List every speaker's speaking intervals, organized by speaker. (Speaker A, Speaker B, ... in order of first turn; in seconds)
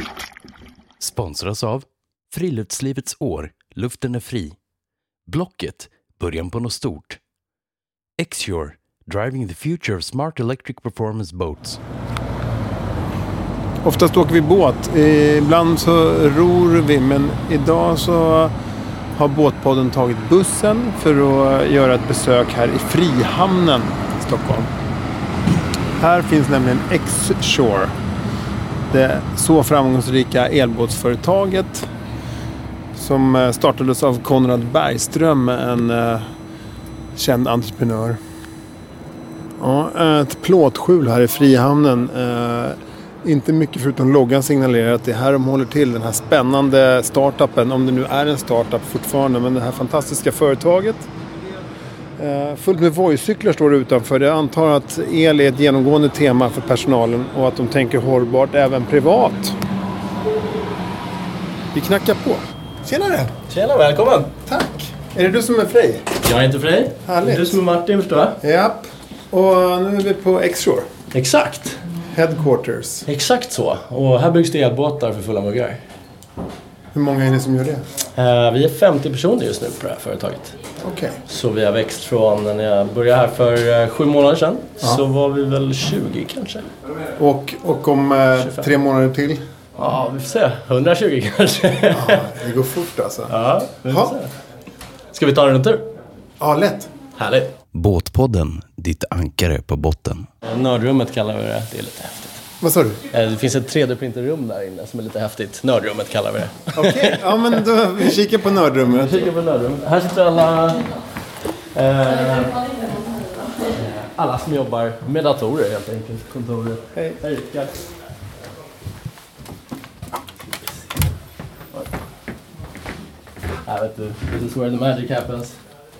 Speaker A: 1.0-4.5, 5.3-7.2, 8.2-11.8, 97.7-100.3
Speaker B: 13.8-18.5, 19.1-24.7, 26.0-27.9, 28.9-31.9, 32.9-36.3, 37.1-38.2, 39.6-51.1, 52.2-59.6, 61.7-63.3, 64.4-66.1, 67.0-67.6, 68.4-70.9, 72.1-73.1, 76.9-77.8, 80.8-81.2, 87.2-89.4, 91.9-93.3, 93.8-94.2, 96.4-96.9, 102.6-103.0, 106.7-109.2
Speaker C: 63.5-64.3, 66.2-68.4, 71.1-71.8, 73.1-75.8, 78.1-80.5, 81.3-86.7, 88.4-88.7, 89.8-92.3, 93.3-94.3, 95.1-95.9, 97.2-97.5, 100.4-102.4, 103.1-107.6, 109.0-110.9, 111.7-112.8, 113.6-117.8, 123.6-125.6